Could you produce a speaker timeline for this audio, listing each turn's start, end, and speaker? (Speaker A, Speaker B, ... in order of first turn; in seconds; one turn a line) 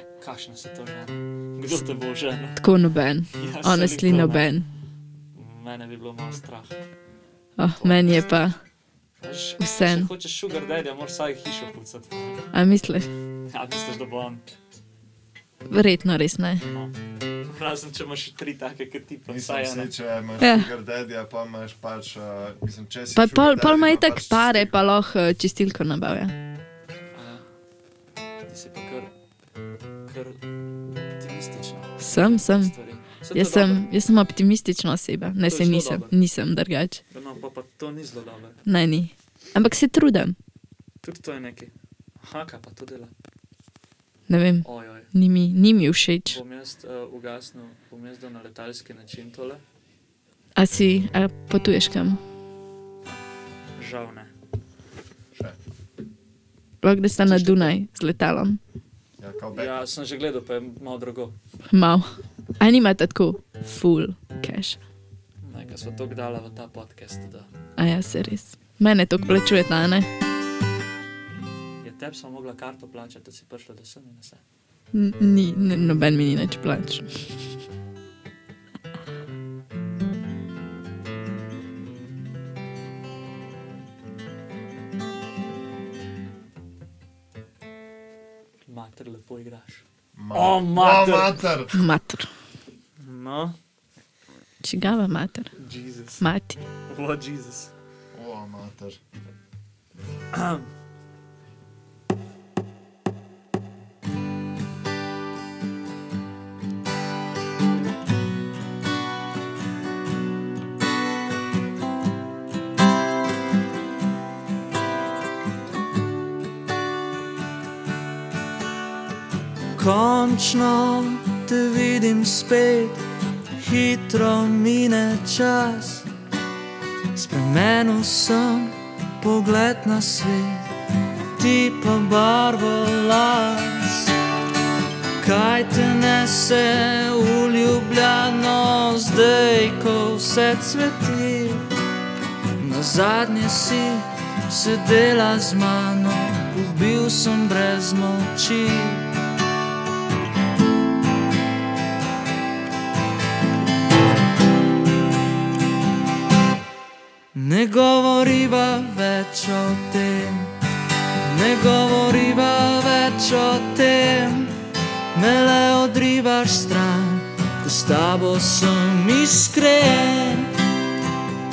Speaker A: 0.2-2.6
Speaker B: 2.6-4.7
Speaker A: 3.3-4.5
Speaker A: 5.3-6.8
Speaker B: 7.6-8.6
Speaker A: 7.8-8.2
Speaker A: 9.2-12.5
Speaker B: 9.6-10.1
Speaker B: 12.5-13.1
Speaker A: 13.5-14.5
Speaker B: 15.7-16.6
Speaker A: 16.6-16.9
Speaker A: 17.5-19.9
Speaker C: 19.3-24.7
Speaker B: 20.4-20.7
Speaker B: 23.1-26.3
Speaker A: 27.1-27.4
Speaker A: 28.5-29.1
Speaker A: 30.1-30.4
Speaker A: 31.1-33.8
Speaker B: 32.0-32.7
Speaker B: 33.3-37.0
Speaker A: 35.5-36.1
Speaker A: 37.1-38.6
Speaker B: 38.7-40.4
Speaker A: 41.0-41.7
Speaker A: 42.2-43.1
Speaker B: 44.3-46.4
Speaker A: 44.6-45.1
Speaker A: 46.3-49.6
Speaker B: 50.6-52.2
Speaker A: 53.8-54.3
Speaker B: 56.8-58.6
Speaker A: 57.2-57.7
Speaker C: 59.2-59.8
Speaker A: 59.5-61.3
Speaker B: 61.7-62.1
Speaker B: 62.6-64.8
Speaker A: 65.4-67.5
Speaker B: 67.8-70.1
Speaker A: 71.8-74.4
Speaker B: 74.9-77.1
Speaker A: 88.7-91.4
Speaker C: 90.2-91.8
Speaker B: 91.7-92.3
Speaker A: 93.0-93.6
Speaker B: 94.6-95.5
Speaker A: 95.6-96.2
Speaker B: 96.2-96.6
Speaker A: 96.9-97.7
Speaker C: 98.1-99.0
Speaker A: 100.3-100.7
Speaker A: 119.8-123.1
Speaker A: 123.6-126.1
Speaker A: 127.1-130.7
Speaker A: 131.4-134.2
Speaker A: 135.2-141.7
Speaker A: 142.6-149.1
Speaker A: 157.3-160.5
Speaker A: 161.2-164.6
Speaker A: 165.1-170.6